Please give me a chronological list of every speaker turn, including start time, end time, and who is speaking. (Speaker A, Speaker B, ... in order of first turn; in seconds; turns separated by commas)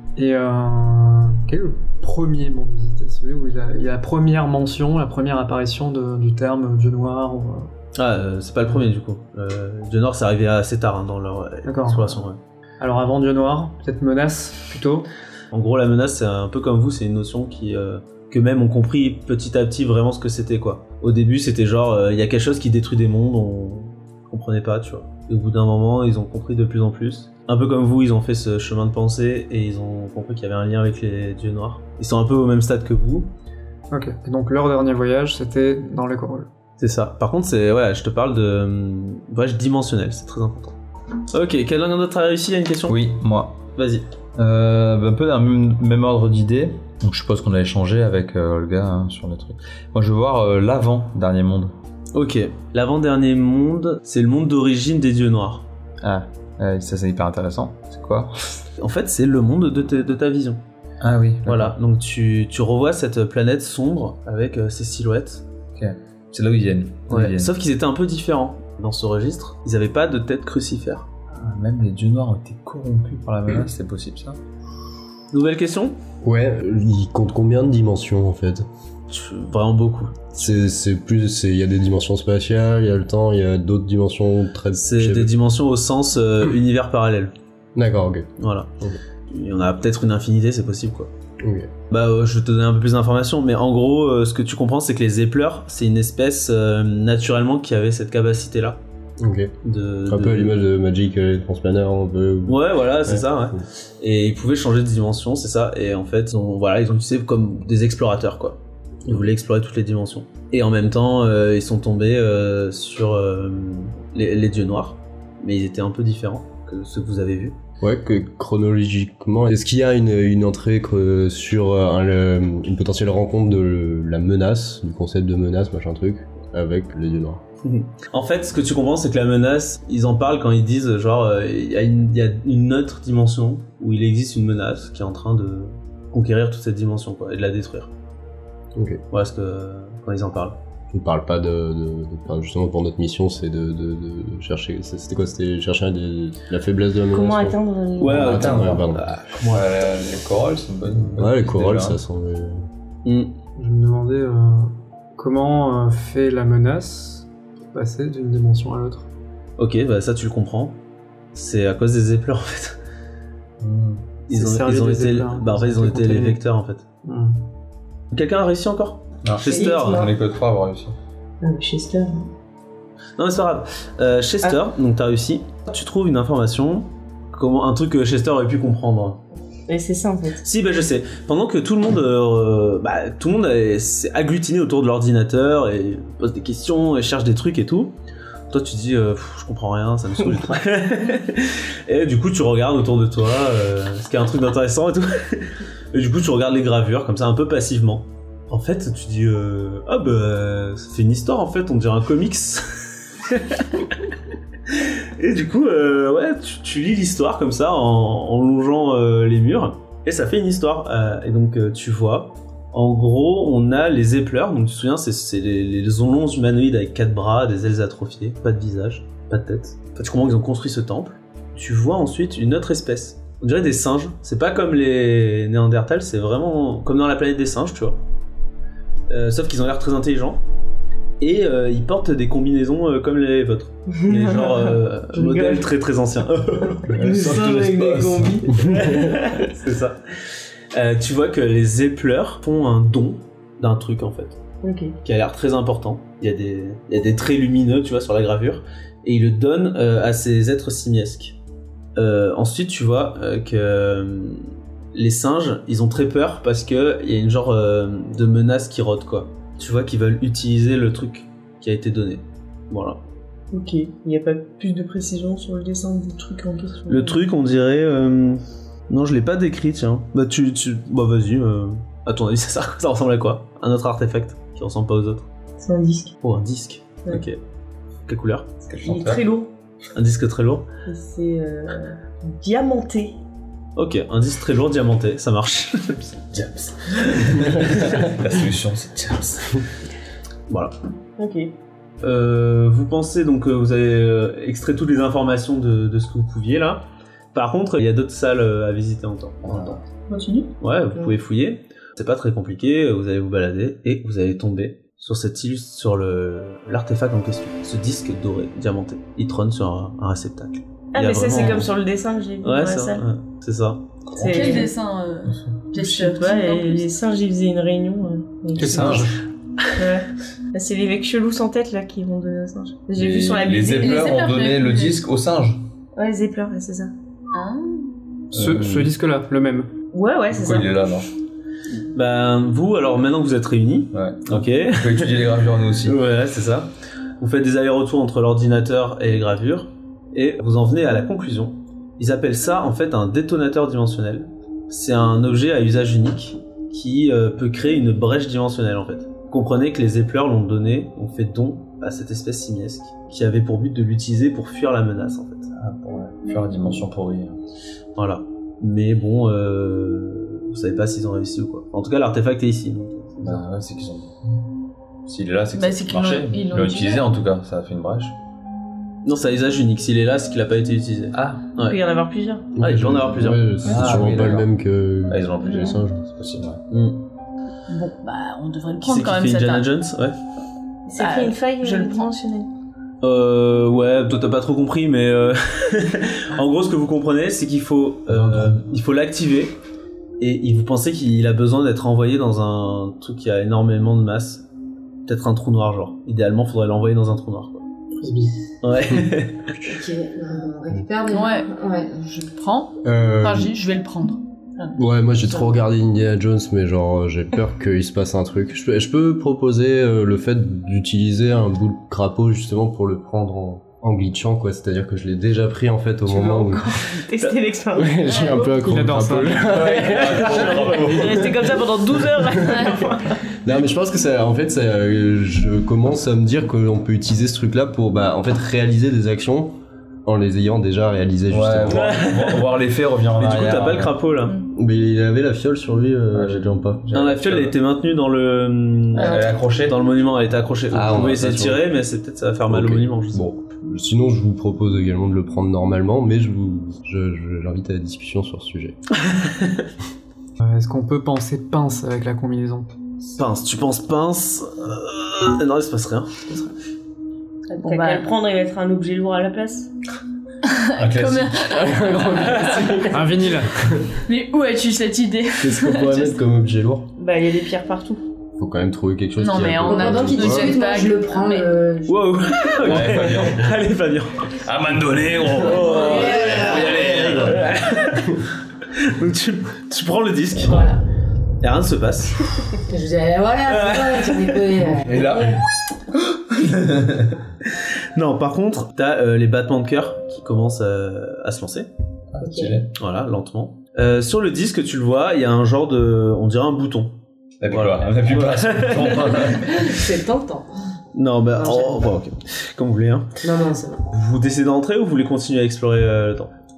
Speaker A: 0.2-7.7, Speaker B: 8.0-12.4, Speaker A: 11.7-12.2, Speaker A: 12.8-15.1, Speaker B: 15.5-33.3, Speaker A: 33.9-36.5, Speaker B: 36.8-40.8, Speaker B: 41.3-43.0, Speaker C: 42.9-43.6, Speaker B: 43.8-44.1, Speaker C: 44.4-51.7, Speaker B: 52.1-55.7, Speaker C: 56.0-58.3, Speaker B: 58.8-60.6, Speaker C: 61.0-61.8, Speaker B: 61.5-65.5, Speaker C: 65.8-67.5, Speaker B: 67.1-71.1, Speaker C: 71.3-74.4, Speaker B: 75.3-76.0, Speaker D: 76.2-78.7, Speaker B: 79.1-80.4, Speaker D: 80.3-85.3, Speaker B: 84.8-87.3, Speaker D: 87.8-88.3, Speaker B: 88.4-88.7, Speaker B: 89.3-91.1, Speaker D: 91.4-91.7, Speaker B: 91.9-98.8, Speaker D: 99.2-99.5, Speaker B: 99.6-100.6, Speaker D: 100.1-103.6, Speaker B: 102.5-117.6, Speaker D: 117.8-127.4, Speaker B: 127.6-137.9, Speaker D: 138.8-139.0, Speaker B: 139.1-140.6, Speaker D: 140.9-149.1, Speaker E: 147.1-148.7, Speaker B: 148.0-149.8, Speaker C: 149.4-152.0, Speaker D: 151.1-152.7, Speaker B: 153.1-153.3, Speaker A: 153.6-159.1, Speaker B: 159.6-160.8, Speaker B: 161.3-162.8, Speaker C: 163.6-164.0, Speaker B: 164.3-166.8, Speaker A: 164.3-166.4, Speaker A: 167.1-167.4, Speaker B: 168.1-170.1, Speaker C: 169.2-170.9, Speaker F: 169.4-170.1, Speaker E: 171.4-172.3, Speaker B: 173.2-179.2, Speaker E: 179.7-180.4, Speaker B: 180.4-187.9, Speaker B: 188.5-204.1, Speaker B: 204.7-228.0, Speaker B: 229.1-230.4, Speaker B: 231.2-237.4, Speaker E: 233.9-235.7, Speaker E: 236.9-239.0, Speaker C: 237.0-238.4, Speaker B: 238.6-240.0, Speaker B: 240.7-244.4, Speaker E: 244.6-244.9, Speaker B: 245.0-251.4, Speaker B: 252.0-263.0, Speaker E: 263.5-267.2, Speaker B: 266.9-275.3, Speaker E: 275.6-276.1, Speaker B: 276.2-277.4, Speaker B: 278.1-278.5, Speaker C: 278.6-279.2, Speaker E: 278.8-279.5, Speaker B: 279.9-280.7, Speaker E: 280.9-283.2, Speaker B: 283.8-286.0, Speaker C: 286.1-289.6, Speaker B: 290.5-290.7, Speaker E: 291.2-291.5, Speaker B: 292.0-299.8, Speaker C: 299.4-299.8, Speaker G: 300.1-300.5, Speaker B: 300.6-311.7, Speaker E: 310.9-313.0, Speaker B: 312.4-313.8, Speaker C: 314.1-314.5, Speaker E: 314.1-314.7, Speaker G: 314.2-316.9, Speaker E: 315.7-319.1, Speaker A: 318.6-319.2, Speaker C: 318.6-319.1, Speaker E: 319.8-324.1, Speaker C: 323.0-325.6, Speaker G: 323.8-325.0, Speaker E: 326.0-326.9, Speaker G: 327.3-327.9, Speaker C: 328.3-328.9, Speaker A: 328.3-329.7, Speaker E: 329.9-330.8, Speaker C: 330.3-331.1, Speaker B: 331.8-355.5, Speaker C: 333.9-336.0, Speaker C: 355.5-357.4, Speaker B: 358.0-363.4, Speaker C: 363.2-364.1, Speaker C: 365.1-368.2, Speaker G: 365.5-367.1, Speaker B: 369.0-371.8, Speaker C: 371.1-371.4, Speaker E: 371.6-372.5, Speaker D: 372.6-376.0, Speaker B: 372.6-373.7, Speaker C: 373.6-374.5, Speaker C: 375.1-376.6, Speaker B: 376.7-377.0, Speaker G: 377.7-379.7, Speaker B: 378.8-380.2, Speaker E: 380.9-382.5, Speaker G: 381.0-382.1, Speaker B: 383.0-389.6, Speaker C: 388.1-388.7, Speaker B: 390.2-394.4, Speaker B: 395.1-397.6, Speaker A: 398.0-398.3, Speaker B: 398.6-399.5, Speaker F: 399.6-402.2, Speaker G: 401.1-401.5, Speaker G: 402.1-404.8, Speaker D: 402.8-403.6, Speaker D: 404.8-416.8, Speaker E: 416.1-418.7, Speaker D: 417.8-421.2, Speaker A: 418.6-419.6, Speaker C: 419.4-421.4, Speaker E: 419.8-423.2, Speaker G: 422.5-422.8, Speaker D: 423.4-429.5, Speaker D: 430.1-432.0, Speaker C: 431.3-433.9, Speaker B: 431.7-432.5, Speaker B: 433.2-434.4, Speaker D: 434.5-436.8, Speaker C: 436.1-437.6, Speaker B: 436.9-443.3, Speaker C: 438.9-439.8, Speaker F: 439.0-439.4, Speaker D: 440.7-441.6, Speaker D: 442.5-448.8, Speaker B: 449.0-449.7, Speaker A: 450.4-452.7, Speaker B: 453.1-456.2, Speaker E: 457.5-459.7, Speaker G: 457.6-458.1, Speaker G: 460.4-462.9, Speaker C: 460.8-461.4, Speaker D: 461.5-463.1, Speaker A: 462.9-463.5, Speaker D: 463.6-463.9, Speaker G: 464.0-466.2, Speaker D: 465.4-466.9, Speaker E: 467.0-468.0, Speaker D: 468.4-470.6, Speaker G: 469.2-471.5, Speaker F: 469.6-472.3, Speaker B: 471.9-474.3, Speaker C: 472.6-473.6, Speaker C: 474.4-477.8, Speaker B: 475.2-478.2, Speaker F: 475.4-476.8, Speaker B: 478.8-480.7, Speaker F: 480.4-480.8, Speaker B: 481.4-482.2, Speaker F: 482.6-485.4, Speaker B: 483.5-484.5, Speaker C: 484.8-485.4, Speaker C: 485.9-487.1, Speaker B: 487.4-491.7, Speaker C: 492.1-492.7, Speaker F: 492.2-492.6, Speaker B: 492.7-497.0, Speaker C: 497.4-499.7, Speaker B: 497.5-499.1, Speaker F: 499.3-500.5, Speaker B: 500.9-503.1, Speaker F: 501.3-501.9, Speaker F: 503.2-503.9, Speaker B: 503.9-506.3